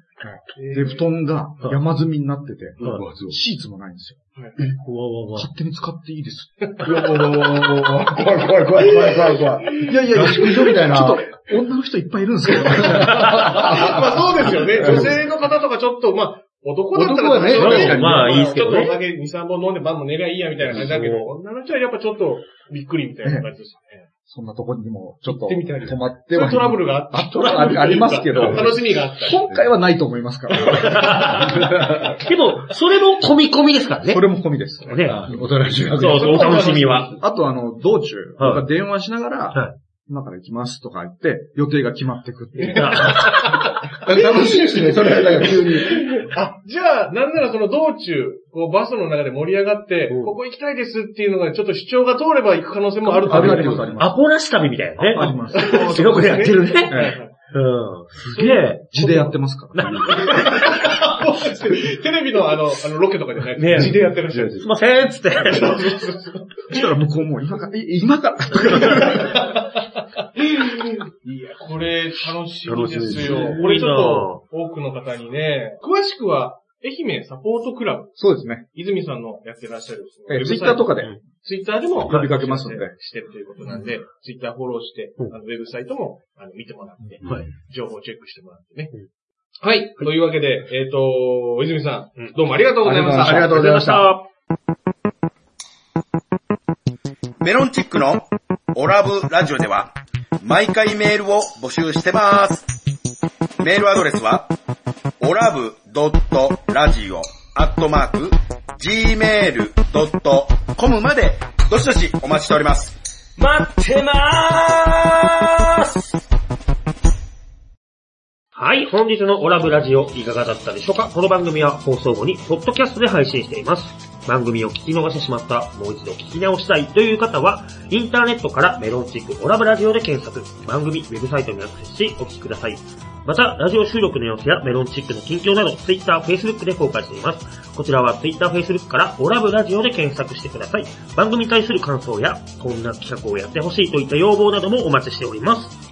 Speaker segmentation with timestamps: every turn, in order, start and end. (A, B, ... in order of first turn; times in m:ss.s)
0:00.2-0:04.2 A
0:00.6-0:01.1 B
0:02.8-0:03.4 C
0:04.7-0:05.5 D
0:05.3-0:06.7 A
0:06.6-0:07.9 B
0:06.8-0:11.3 C
0:08.8-0:10.7 B
0:09.8-0:15.2 A
0:12.7-0:15.2 C
0:12.8-0:24.1 B
0:16.9-0:18.9 C
0:17.5-0:19.0 D
0:20.7-0:21.3 D
0:23.2-0:23.5 A
0:24.2-0:31.5 A
0:25.2-0:29.4 B
0:30.6-0:34.2 D
0:31.3-0:32.2 C
0:34.1-0:35.5 A
0:34.8-0:35.2 D
0:35.0-0:37.0 C
0:35.9-0:37.2 D
0:36.0-0:37.1 B
0:37.2-0:43.4 A
0:38.4-0:38.6 D
0:42.6-0:43.4 D
0:42.6-0:53.9 B
0:43.9-0:46.1 C
0:50.1-0:50.4 D
0:53.0-0:54.2 A
0:53.3-0:58.8 D
0:55.0-0:56.1 A
0:55.2-0:57.3 B
0:56.9-0:57.2 A
0:58.3-0:59.4 B
0:58.9-1:00.5 A
0:59.8-1:00.1 C
0:59.8-1:00.3 D
1:00.0-1:04.7 B
1:03.6-1:04.0 D
1:03.7-1:04.7 C
1:04.6-1:05.8 D
1:05.4-1:06.9 B
1:06.7-1:09.5 A
1:08.7-1:18.2 B
1:12.7-1:13.6 C
1:13.0-1:14.4 D
1:18.2-1:18.6 A
1:18.7-1:28.9 B
1:20.3-1:21.2 A
1:22.0-1:22.9 A
1:27.2-1:27.5 C
1:29.6-1:33.8 B
1:32.8-1:34.1 C
1:33.1-1:34.2 D
1:37.4-1:42.7 E
1:43.6-1:44.5 E
1:45.2-1:53.0 E
1:53.4-1:55.8 D
1:58.6-2:25.7 D